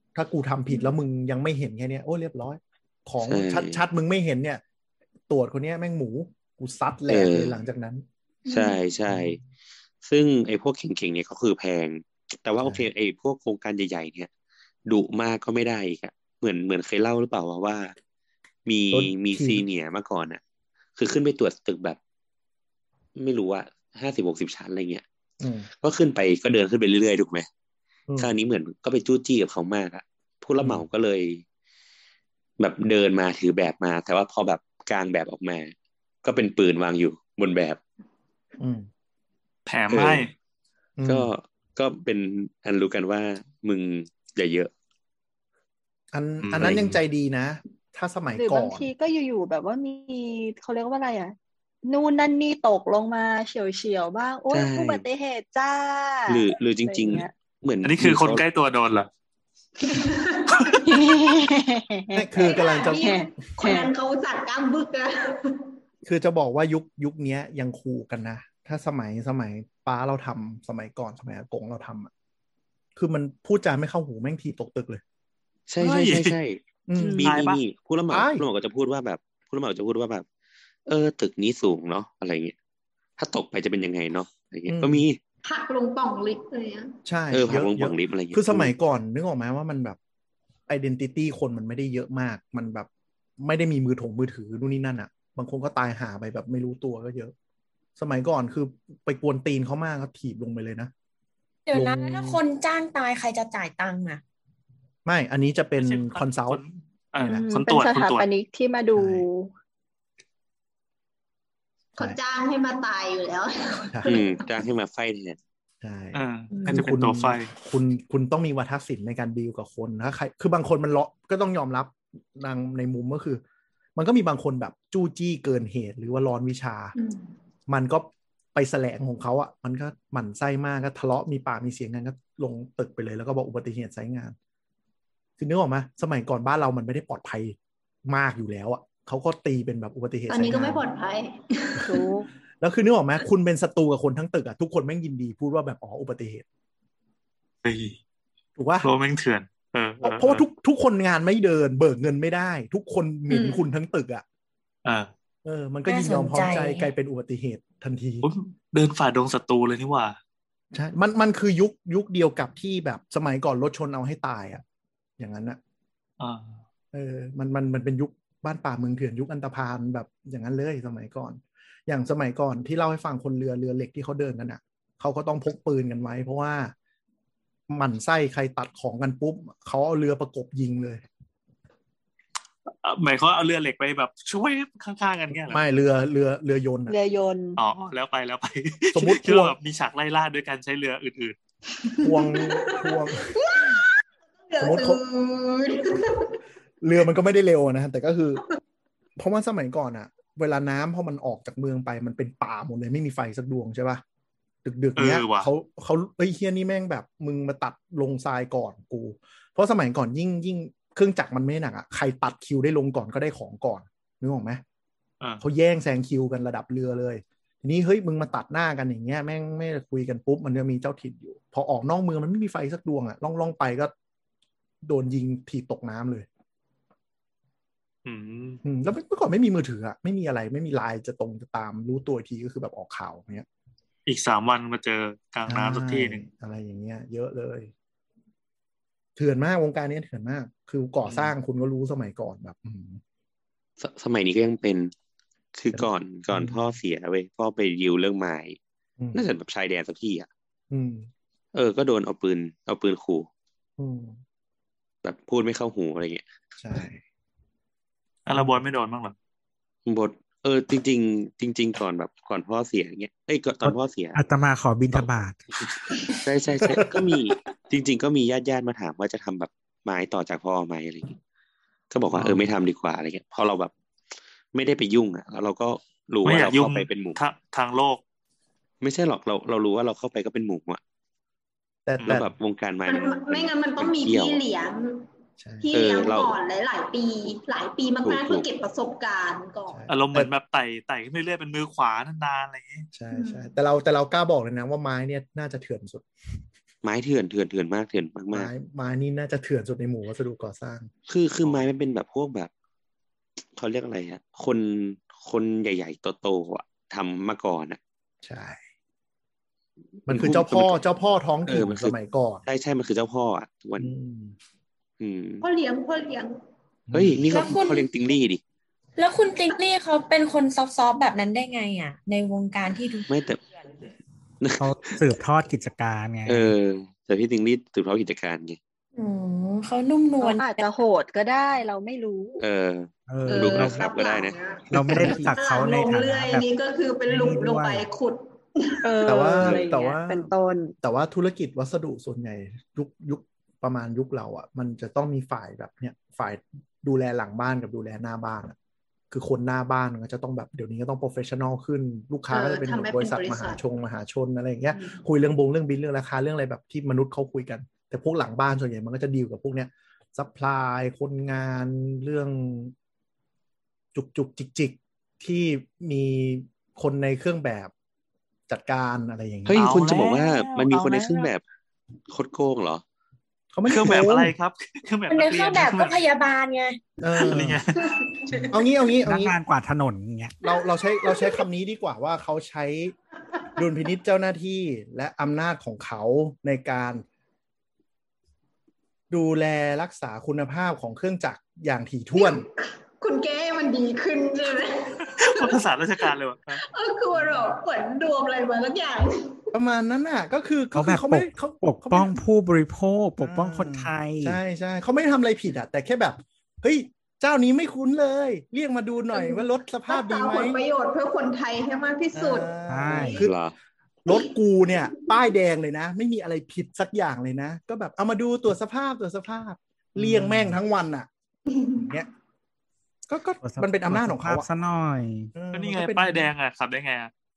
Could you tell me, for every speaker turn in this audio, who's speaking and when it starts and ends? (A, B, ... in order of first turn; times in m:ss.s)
0:00.1-0:04.6 A
0:03.2-0:03.8 B
0:05.3-0:08.0 A
0:07.1-0:07.6 B
0:08.5-0:08.8 C
0:08.5-0:09.4 B
0:09.1-0:09.4 A
0:10.0-0:14.3 B
0:14.9-0:17.9 B
0:18.6-0:20.4 B
0:18.9-0:19.6 A
0:21.0-0:22.0 B
0:23.2-0:25.0 B
0:25.4-0:25.7 A
0:25.8-0:27.5 B
0:28.1-0:28.3 A
0:28.2-0:31.4 B
0:30.6-0:30.8 A
0:32.6-0:35.7 B
0:36.2-0:37.8 B
0:38.6-0:38.9 A
0:39.7-0:40.3 D
0:39.9-0:40.3 B
0:41.0-0:41.3 A
0:41.0-0:44.7 B
0:46.1-0:48.9 A
0:46.5-0:46.9 B
0:48.3-0:57.3 E
0:54.5-0:55.0 B
0:56.3-0:58.4 B
0:57.8-0:59.1 D
0:59.9-1:00.7 C
1:00.8-1:03.9 E
1:02.1-1:03.0 A
1:02.4-1:05.7 C
1:06.0-1:12.1 A
1:13.0-1:15.0 A
1:15.7-1:20.2 B
1:15.8-1:16.4 D
1:16.9-1:17.2 A
1:17.0-1:17.3 E
1:17.2-1:17.6 D
1:18.1-1:18.4 A
1:20.9-1:22.5 B
1:23.2-1:25.2 B
1:24.7-1:25.0 A
1:25.4-1:27.0 C
1:27.0-1:30.0 A
1:27.3-1:28.7 B
1:30.7-1:37.3 A
1:38.0-1:40.9 A
1:41.7-1:44.2 F
1:41.7-1:42.4 A
1:45.0-1:46.6 A
1:45.8-1:48.3 D
1:47.2-1:49.5 E
1:48.9-1:49.2 A
1:52.0-1:54.4 C
1:54.0-1:55.4 B
1:55.8-2:03.4 A
1:56.1-1:57.5 D
2:04.0-2:06.9 A
2:07.0-2:07.3 C
2:07.7-2:14.4 A
2:15.4-2:20.8 A
2:20.3-2:22.0 C
2:21.8-2:22.2 E
2:22.6-2:26.4 A
2:27.6-2:28.0 D
2:28.6-2:28.9 A
2:28.8-2:30.4 D
2:30.0-2:34.2 A
2:33.3-2:33.6 C
2:34.8-2:35.1 D
2:35.4-2:38.3 A
2:35.8-2:36.9 F
2:38.2-2:40.2 D
2:40.7-2:44.6 A
2:45.2-2:45.6 A
2:46.2-2:46.6 D
2:46.9-2:56.7 A
2:57.7-3:01.0 A
3:02.8-3:05.6 D
3:05.4-3:07.0 A
3:06.9-3:07.6 E
3:07.6-3:11.4 D
3:08.9-3:09.5 A
3:11.8-3:13.8 C
3:12.0-3:13.4 A
3:14.5-3:16.4 C
3:14.6-3:15.0 A
3:16.8-3:18.4 A
3:19.2-3:24.0 A
3:24.6-3:34.6 A
3:25.0-3:25.5 D
3:35.4-3:43.9 A
3:44.8-3:46.3 A
3:48.0-3:48.6 D
3:48.6-3:53.5 A
3:54.0-3:56.2 D
3:55.4-3:57.7 A
3:59.2-4:03.0 A
4:03.8-4:04.9 B
4:05.5-4:08.6 B
4:05.7-4:06.7 A
4:09.1-4:10.3 B
4:10.7-4:11.1 A
4:11.5-4:13.3 B
4:13.8-4:14.2 A
4:15.0-4:16.2 B
4:16.6-4:17.0 A
4:18.2-4:19.1 D
4:18.3-4:18.6 A
4:19.8-4:24.2 B
4:23.6-4:25.4 G
4:26.1-4:31.2 B
4:26.6-4:27.0 A
4:31.9-4:33.7 B
4:32.1-4:32.4 D
4:34.5-4:37.2 B
4:36.2-4:38.0 D
4:38.8-4:40.8 B
4:41.8-4:42.3 A
4:42.0-4:44.4 B
4:42.8-4:45.0 C
4:45.4-4:45.7 A
4:45.6-4:49.8 C
4:45.7-4:46.3 B
4:48.0-4:48.4 B
4:49.7-4:50.3 A
4:49.9-4:52.9 D
4:52.9-4:56.1 A
4:53.1-4:53.5 C
4:56.8-4:58.5 B
4:58.3-5:00.9 A
5:01.1-5:02.5 B
5:03.5-5:07.8 B
5:08.2-5:08.6 A
5:10.0-5:10.8 B
5:10.1-5:12.4 A
5:11.4-5:11.9 B
5:12.5-5:13.9 B
5:13.8-5:14.4 A
5:15.0-5:15.4 B
5:15.4-5:16.3 C
5:16.9-5:17.5 A
5:16.9-5:18.4 B
5:17.3-5:17.9 F
5:19.0-5:23.1 F
5:23.1-5:23.4 B
5:24.4-5:25.0 B
5:24.6-5:26.5 G
5:26.3-5:28.6 B
5:28.9-5:30.6 F
5:30.2-5:32.4 E
5:32.4-5:34.4 B
5:33.1-5:33.9 G
5:33.3-5:38.8 C
5:34.7-5:36.5 G
5:34.7-5:35.3 A
5:37.1-5:37.9 G
5:38.8-5:40.7 E
5:39.0-5:48.6 A
5:39.4-5:39.7 B
5:49.1-6:02.7 A
5:52.3-5:53.6 C
5:54.7-5:55.0 C
6:03.9-6:07.7 A
6:08.5-6:09.6 A
6:09.4-6:11.4 B
6:09.5-6:10.5 D
6:12.1-6:12.8 B
6:13.5-6:14.3 A
6:13.7-6:16.0 D
6:15.1-6:16.8 F
6:17.0-6:17.6 A
6:17.2-6:18.0 D
6:18.0-6:18.4 C
6:18.5-6:19.4 A
6:19.0-6:20.4 G
6:20.4-6:22.9 A
6:23.6-6:27.0 A
6:29.1-6:32.4 A
6:32.2-6:35.5 C
6:35.2-6:36.6 D
6:36.5-6:39.4 C
6:37.1-6:37.5 A
6:39.5-6:42.2 A
6:40.7-6:44.4 G
6:43.2-6:50.6 A
6:49.1-6:53.2 C
6:52.1-6:53.4 A
6:52.7-6:53.2 G
6:53.2-6:53.5 B
6:54.0-7:01.1 A
7:00.0-7:00.6 G
7:01.5-7:01.8 C
7:01.7-7:02.1 A
7:03.1-7:04.5 A
7:03.4-7:05.3 G
7:05.3-7:06.3 A
7:05.5-7:07.1 D